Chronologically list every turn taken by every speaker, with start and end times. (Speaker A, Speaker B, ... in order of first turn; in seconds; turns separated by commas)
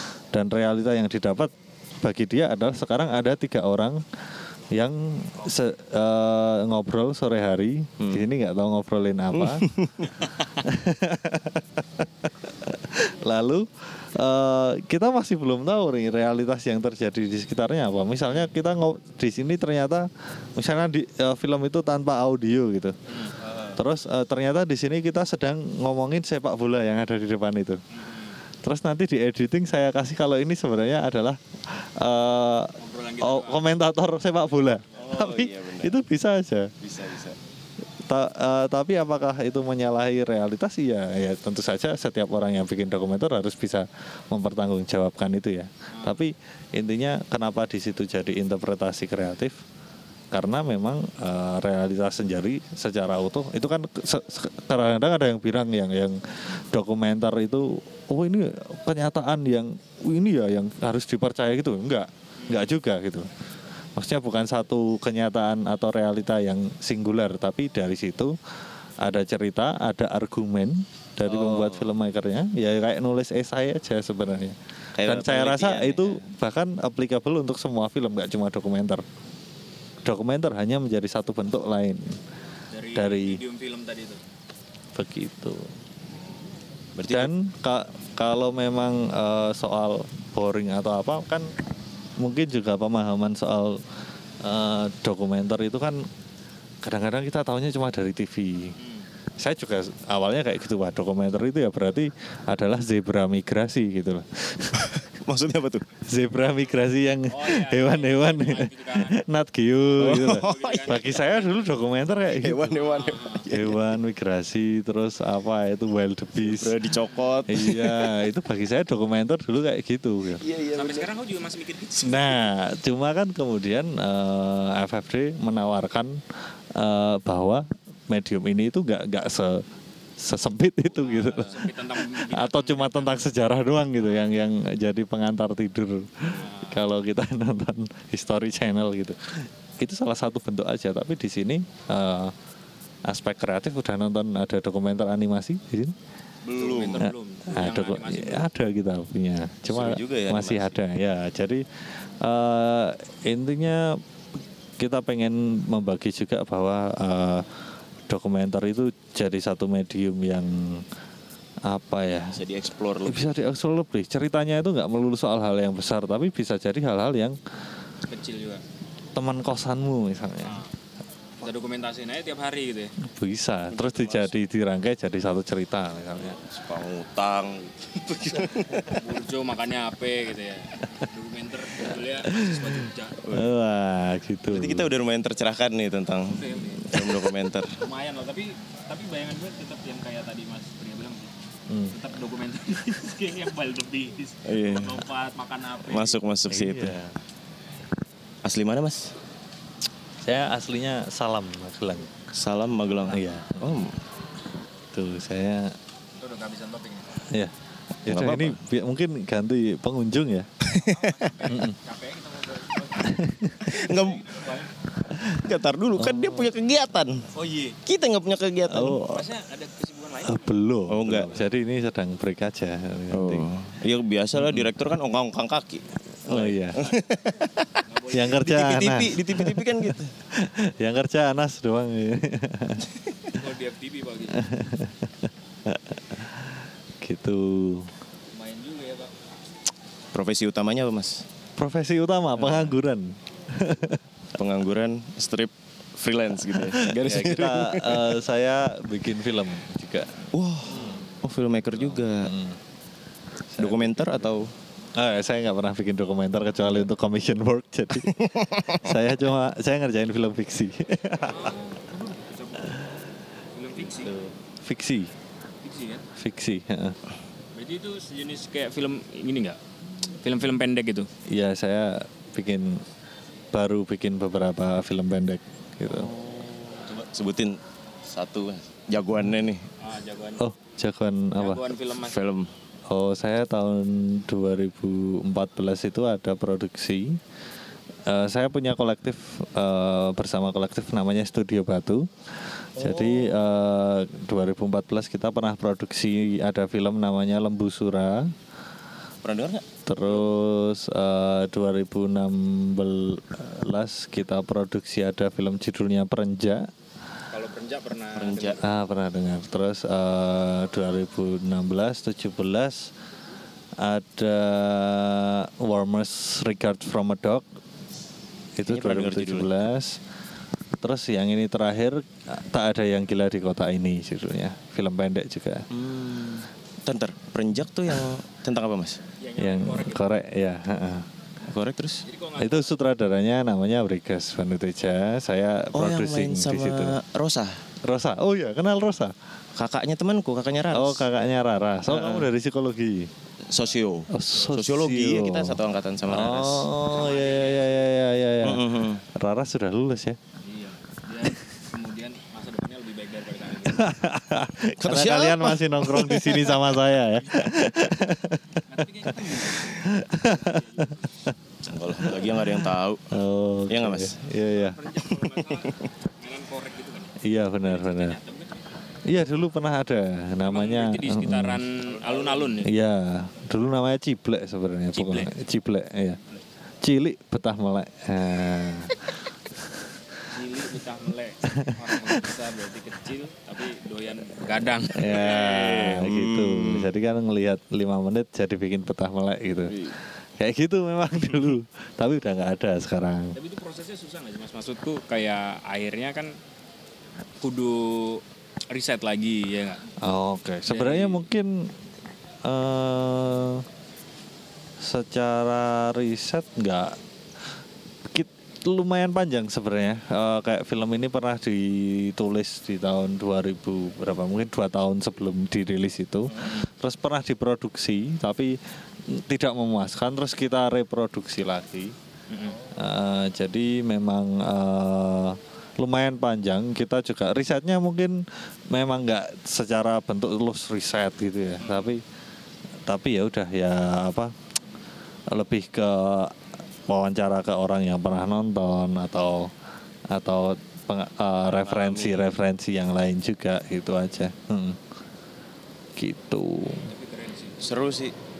Speaker A: 0.3-4.0, Speaker A: 4.7-9.7, Speaker B: 9.3-10.1, Speaker A: 10.6-22.9, Speaker B: 23.4-23.8, Speaker A: 23.8-27.8, Speaker C: 27.9-28.4, Speaker A: 28.6-36.7, Speaker C: 32.8-33.6, Speaker B: 35.0-36.0, Speaker B: 36.8-37.4, Speaker A: 38.0-49.6, Speaker C: 45.9-46.2, Speaker A: 50.3-63.3, Speaker C: 62.4-62.7, Speaker A: 64.0-68.3, Speaker A: 69.0-79.0, Speaker B: 71.2-71.9, Speaker B: 75.0-76.2, Speaker A: 80.0-82.2, Speaker C: 82.7-84.2, Speaker A: 82.9-83.4, Speaker A: 84.9-85.7, Speaker B: 87.0-87.3, Speaker A: 87.1-91.5, Speaker A: 92.2-93.8, Speaker A: 94.4-96.0, Speaker A: 96.8-98.7, Speaker C: 98.8-99.1, Speaker A: 99.4-104.9, Speaker B: 104.8-105.8, Speaker A: 106.0-112.8, Speaker C: 107.3-109.2, Speaker C: 109.9-111.6, Speaker B: 110.0-111.1, Speaker B: 112.3-113.9, Speaker C: 112.7-113.4, Speaker A: 113.5-116.8, Speaker B: 116.4-118.2, Speaker C: 117.0-117.4, Speaker A: 117.5-120.4, Speaker B: 120.4-121.1, Speaker C: 120.7-122.4, Speaker A: 122.0-126.2, Speaker A: 126.7-129.6, Speaker A: 130.2-142.3, Speaker C: 130.9-133.2, Speaker C: 136.2-136.8, Speaker A: 143.1-145.9, Speaker B: 146.4-147.1, Speaker C: 146.5-148.5, Speaker A: 147.0-154.0, Speaker B: 149.7-150.7, Speaker A: 154.8-157.5, Speaker A: 158.1-160.8, Speaker A: 161.6-162.4, Speaker B: 162.2-163.3, Speaker A: 163.0-167.4, Speaker C: 168.1-168.6, Speaker A: 169.1-170.6, Speaker C: 170.4-170.7, Speaker C: 171.4-172.9, Speaker A: 173.0-176.4, Speaker B: 173.7-174.3, Speaker B: 176.2-179.0, Speaker C: 178.8-183.2, Speaker A: 182.2-182.8, Speaker B: 183.2-183.5, Speaker A: 183.3-184.9, Speaker B: 184.5-187.7, Speaker C: 186.3-186.9, Speaker C: 187.8-191.3, Speaker A: 191.7-191.9, Speaker C: 191.9-196.2, Speaker B: 194.4-195.0, Speaker B: 195.9-196.9, Speaker A: 196.5-197.1, Speaker B: 198.4-199.1, Speaker A: 200.2-202.1, Speaker B: 202.3-203.9, Speaker A: 203.1-203.8, Speaker A: 204.9-205.7, Speaker C: 206.2-207.2, Speaker A: 208.0-210.5, Speaker B: 208.1-208.6, Speaker B: 210.6-211.3, Speaker C: 210.7-214.7, Speaker A: 211.5-211.8, Speaker A: 213.0-213.7, Speaker B: 213.7-214.4, Speaker A: 215.1-215.4, Speaker B: 215.4-217.3, Speaker A: 216.0-216.5, Speaker C: 217.3-217.8, Speaker B: 217.8-219.0, Speaker A: 218.7-219.2, Speaker C: 219.0-220.6, Speaker A: 220.2-223.5, Speaker B: 220.9-221.3, Speaker B: 223.1-230.1, Speaker A: 224.3-224.7, Speaker A: 226.3-226.8, Speaker C: 227.9-228.4, Speaker A: 228.1-232.9, Speaker C: 233.3-234.5, Speaker A: 234.3-237.9, Speaker C: 238.3-239.2, Speaker B: 240.1-241.2, Speaker A: 241.6-244.0, Speaker B: 242.4-242.7, Speaker B: 244.4-248.1, Speaker A: 246.5-250.2, Speaker B: 250.3-252.3, Speaker A: 251.7-252.6, Speaker A: 253.5-254.3, Speaker B: 253.6-254.5, Speaker A: 254.9-261.6, Speaker B: 258.0-258.9, Speaker C: 261.2-262.9, Speaker C: 263.5-264.1, Speaker B: 263.9-264.3, Speaker A: 264.6-265.1, Speaker C: 265.6-266.1, Speaker A: 266.1-267.0, Speaker C: 267.5-269.6, Speaker C: 270.2-271.1, Speaker A: 271.3-272.8, Speaker A: 273.5-276.1, Speaker B: 275.9-279.6, Speaker C: 279.8-280.4, Speaker A: 280.4-281.8, Speaker C: 281.4-282.2, Speaker B: 282.0-282.5, Speaker A: 282.9-287.2, Speaker A: 288.1-292.1, Speaker A: 292.8-298.3, Speaker B: 292.8-293.4, Speaker B: 299.2-299.6, Speaker A: 299.9-306.7, Speaker C: 307.3-308.7, Speaker B: 308.1-308.6, Speaker A: 308.6-312.9, Speaker A: 313.8-317.4, Speaker A: 318.6-320.0, Speaker B: 318.7-319.5, Speaker A: 320.8-325.7, Speaker B: 325.7-329.0, Speaker C: 329.2-330.1, Speaker A: 329.4-331.1, Speaker B: 331.5-332.0, Speaker C: 332.0-332.7, Speaker A: 332.4-337.0, Speaker B: 335.7-337.6, Speaker A: 337.8-339.1, Speaker B: 339.6-341.0, Speaker A: 340.7-343.1, Speaker B: 341.9-342.3, Speaker B: 343.5-346.7, Speaker A: 344.1-350.2, Speaker C: 346.9-347.9, Speaker B: 348.4-349.0, Speaker C: 350.4-353.9, Speaker A: 353.7-361.3, Speaker B: 354.7-356.6, Speaker C: 358.6-361.1, Speaker B: 361.6-363.1, Speaker A: 362.0-364.8, Speaker B: 363.7-364.1, Speaker C: 364.5-368.6, Speaker B: 365.0-365.8, Speaker A: 367.2-368.2, Speaker A: 369.1-371.6, Speaker C: 370.4-372.7, Speaker B: 371.9-372.6, Speaker A: 372.6-376.2, Speaker C: 374.9-375.3, Speaker A: 376.8-379.1, Speaker C: 380.3-385.5, Speaker A: 381.4-382.2, Speaker A: 384.9-389.8, Speaker B: 385.1-386.9, Speaker B: 389.7-389.9, Speaker A: 390.4-393.4, Speaker C: 393.3-396.4, Speaker C: 397.4-399.9, Speaker A: 400.0-401.7, Speaker C: 400.7-401.2, Speaker A: 402.4-403.6, Speaker A: 404.8-407.0, Speaker A: 408.1-418.6, Speaker A: 419.1-421.9, Speaker C: 422.3-422.6, Speaker A: 422.7-432.0, Speaker A: 432.9-434.3, Speaker A: 435.3-436.4, Speaker A: 436.9-439.5, Speaker A: 440.1-444.8, Speaker B: 441.5-442.3, Speaker A: 446.0-446.9, Speaker C: 446.8-447.6, Speaker B: 447.6-448.1